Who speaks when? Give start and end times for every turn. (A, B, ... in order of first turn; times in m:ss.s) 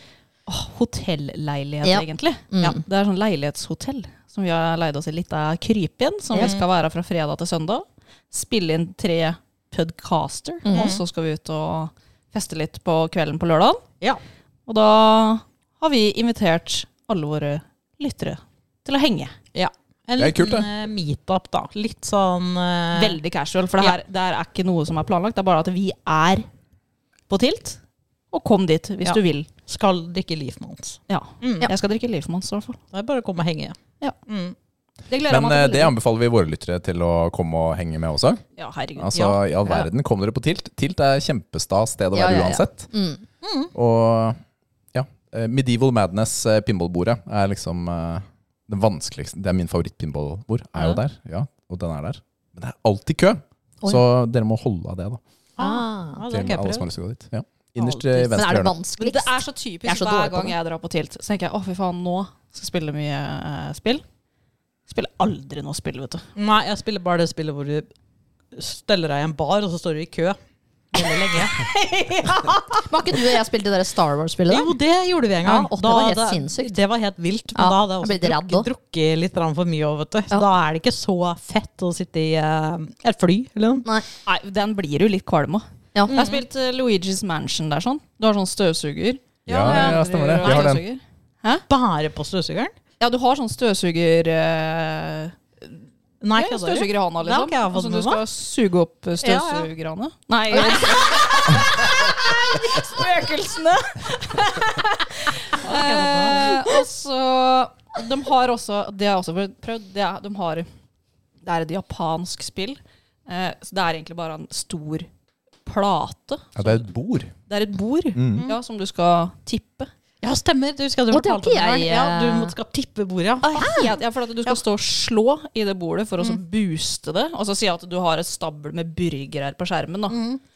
0:00.5-0:13.8 A
0:01.8-0:02.8 B
0:06.4-0:06.6 C
0:10.6-0:10.9 B
0:10.7-0:11.0 C
0:14.7-0:19.3 A
0:19.5-0:23.2 C
0:20.2-0:20.7 D
0:22.9-0:26.5 A
0:27.3-0:27.8 A
0:28.3-0:29.5 A
0:29.0-0:31.7 C
0:31.1-0:32.8 A
0:32.9-0:34.5 C
0:35.1-0:35.9 A
0:35.2-0:38.4 D
0:38.6-0:39.3 A
0:39.0-0:42.9 D
0:39.1-0:39.4 C
0:42.1-0:43.2 B
0:43.4-0:43.7 C
0:43.7-0:44.4 D
0:44.9-0:55.2 D
0:55.6-0:56.9 C
0:55.6-0:56.2 B
0:56.3-0:58.8 D
0:58.1-1:00.5 B
0:59.0-1:04.0 A
1:04.9-1:06.3 A
1:06.4-1:07.9 C
1:08.5-1:10.4 C
1:10.9-1:13.2 C
1:12.8-1:14.7 B
1:14.5-1:23.9 C
1:15.4-1:16.8 B
1:17.5-1:18.7 B
1:24.2-1:31.6 A
1:26.1-1:26.4 C
1:29.5-1:30.7 C
1:29.5-1:30.8 D
1:31.7-1:32.7 C
1:33.0-1:35.4 A
1:36.2-1:38.2 C
1:36.4-1:50.7 A
1:39.2-1:39.7 C
1:40.5-1:41.0 C
1:40.5-1:41.0 B
1:45.5-1:46.7 C
1:51.4-1:55.1 A
1:55.6-1:56.8 A
1:56.6-1:57.3 D
1:57.5-1:59.9 A
1:58.1-1:58.4 D
2:00.2-2:03.7 C
2:01.1-2:02.5 B
2:03.4-2:10.2 A
2:03.5-2:03.9 B
2:10.1-2:10.4 C